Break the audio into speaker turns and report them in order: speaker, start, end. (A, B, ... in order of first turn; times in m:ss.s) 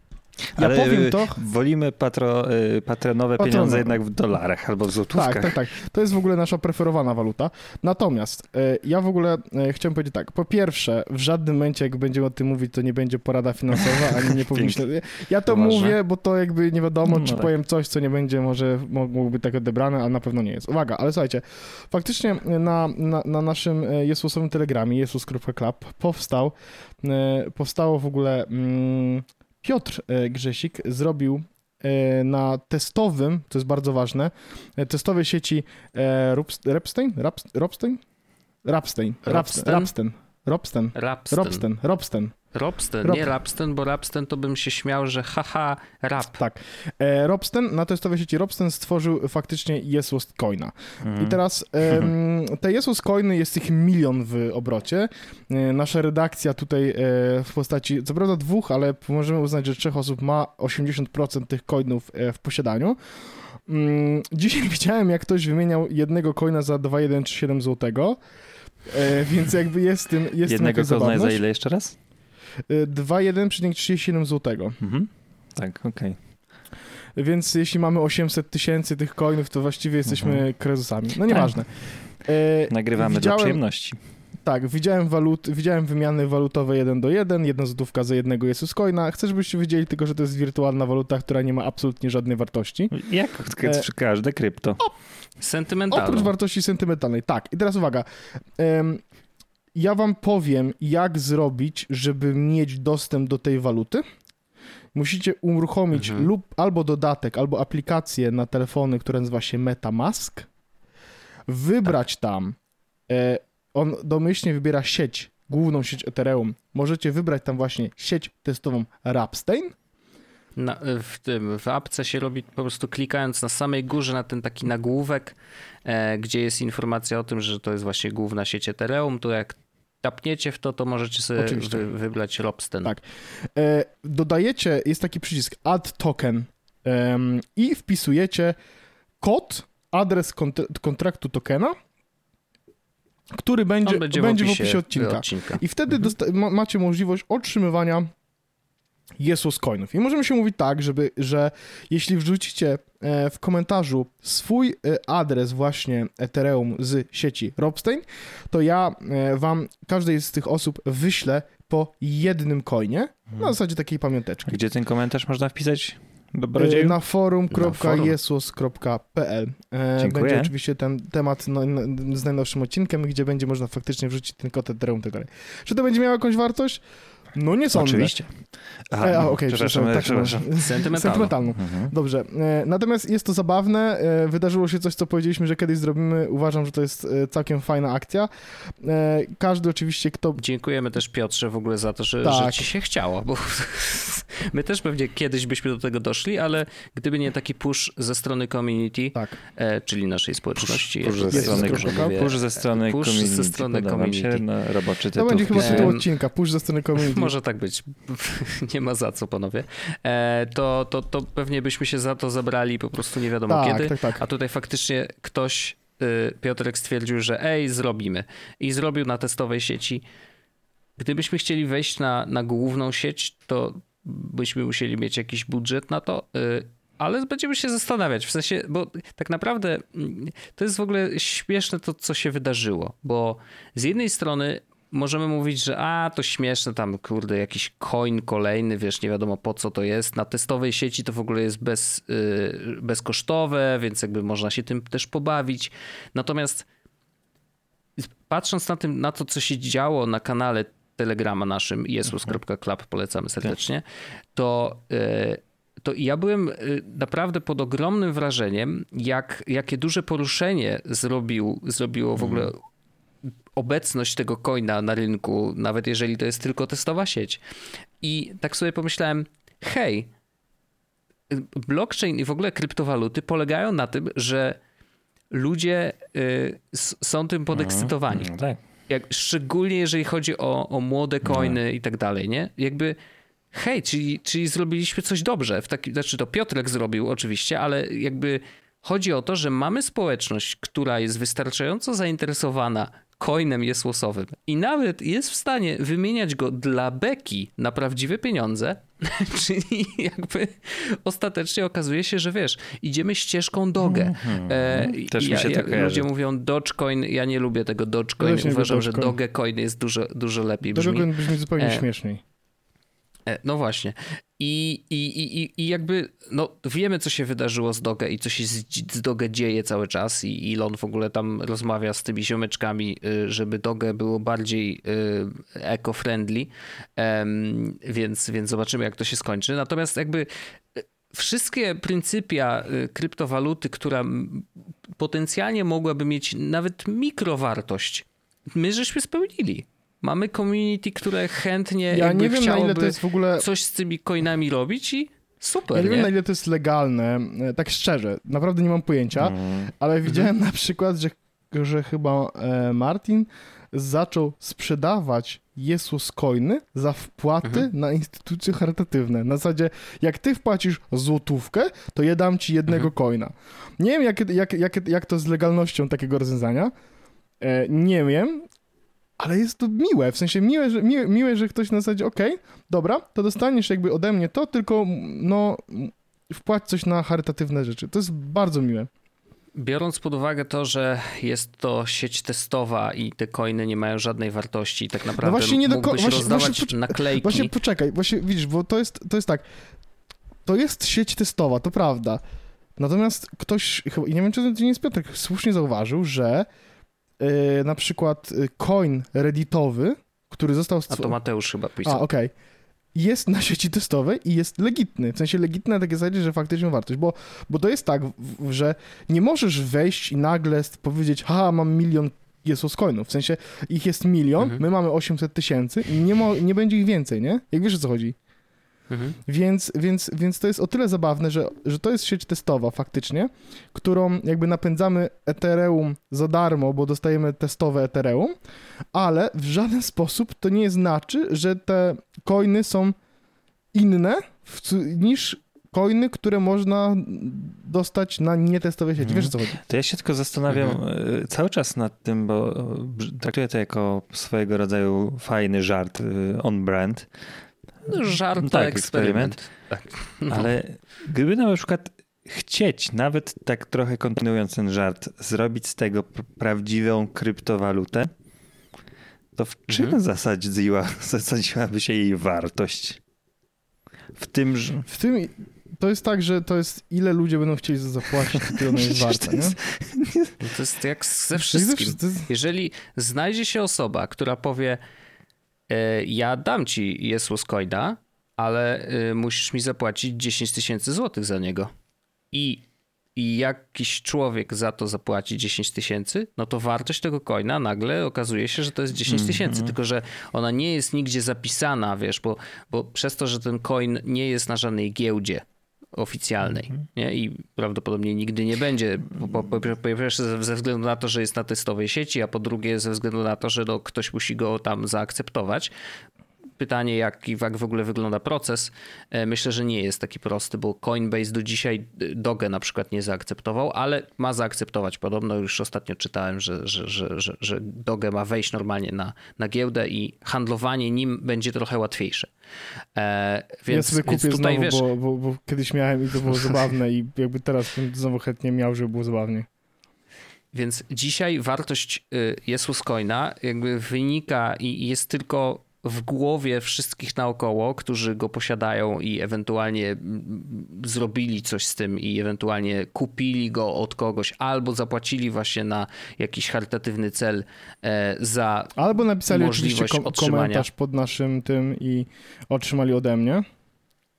0:00.5-0:05.6 A
0:00.6-0:01.4 B
0:03.4-0:04.0 B
0:05.1-0:38.0 B
0:13.8-0:14.8 A
0:15.6-0:15.9 A
0:17.0-0:17.5 A
0:38.6-0:42.4 B
0:39.2-0:39.9 C
0:40.9-0:41.6 C
0:42.5-0:46.4 C
0:43.0-0:43.3 B
0:46.4-1:03.0 B
0:51.0-0:52.1 A
1:03.6-1:08.2 B
1:08.8-1:11.4 B
1:10.4-1:11.9 A
1:12.7-1:14.8 B
1:14.8-1:16.2 A
1:17.2-1:21.7 B
1:20.1-1:20.4 A
1:22.2-1:23.6 B
1:22.7-1:24.0 A
1:24.4-1:32.9 B
1:32.9-1:34.8 A
1:33.6-1:33.9 B
1:35.4-1:36.3 C
1:35.9-1:38.0 B
1:38.6-1:39.0 B
1:39.7-1:44.0 B
1:44.9-1:50.5 B
1:45.9-1:46.3 C
1:51.5-1:52.6 B
1:53.1-1:59.7 B
2:00.6-2:12.9 C
2:11.4-2:11.9 B
2:12.8-2:18.6 B
2:19.2-2:21.7 B
2:23.3-2:28.1 B
2:23.8-2:25.6 C
2:29.2-2:44.6 B
2:44.5-2:47.0 A
2:46.6-2:56.8 B
2:47.5-2:48.1 C
2:50.0-2:50.5 A
2:57.3-2:58.1 B
2:57.7-2:58.3 A
2:58.9-3:00.8 A
2:59.0-3:08.3 B
3:00.6-3:01.3 C
3:01.5-3:01.9 A
3:08.8-3:10.4 B
3:10.4-3:24.4 C
3:12.2-3:12.7 B
3:20.6-3:26.0 A
3:21.3-3:22.2 B
3:25.2-3:27.3 B
3:25.6-3:26.0 C
3:27.0-3:40.0 C
3:33.5-3:34.2 B
3:41.0-4:06.7 C
4:08.0-4:22.6 C
4:22.2-4:22.5 A
4:23.6-4:27.4 C
4:28.0-4:30.1 C
4:31.3-4:34.6 C
4:35.3-4:38.3 C
4:37.5-4:38.6 A
4:38.9-4:43.0 C
4:41.2-4:41.6 A
4:43.5-5:11.8 C
5:03.8-5:06.1 A
5:08.2-5:09.2 B
5:10.7-5:12.2 B
5:13.3-5:34.5 C
5:35.0-5:46.1 C
5:41.9-5:43.4 B
5:45.7-6:06.7 B
5:49.2-5:49.7 A
6:07.4-6:08.5 B
6:09.2-6:18.9 B
6:19.6-6:27.5 C
6:25.2-6:29.4 B
6:30.4-6:32.2 B
6:32.8-6:36.5 B
6:37.2-6:41.2 B
6:40.9-6:42.1 C
6:41.8-6:42.3 B
6:42.9-6:58.2 B
6:58.9-6:59.2 C
6:59.2-7:08.4 B
7:08.9-7:12.9 B
7:13.7-7:19.6 B
7:19.0-7:27.1 A
7:20.5-7:20.8 C
7:27.8-7:30.5 C
7:28.4-7:29.4 A
7:30.3-7:38.1 A
7:39.4-7:43.0 A
7:44.2-7:44.8 A
7:44.9-7:49.6 B
7:48.4-7:50.3 A
7:50.4-7:54.8 C
7:51.4-7:52.3 B
7:55.7-8:01.7 C
8:02.3-8:02.6 C
8:03.2-8:25.7 C
8:09.1-8:09.7 A
8:26.6-8:42.3 C
8:42.9-8:44.8 C
8:43.7-8:49.5 B
8:50.5-9:08.7 C
9:08.8-9:13.4 B
9:09.3-9:10.6 C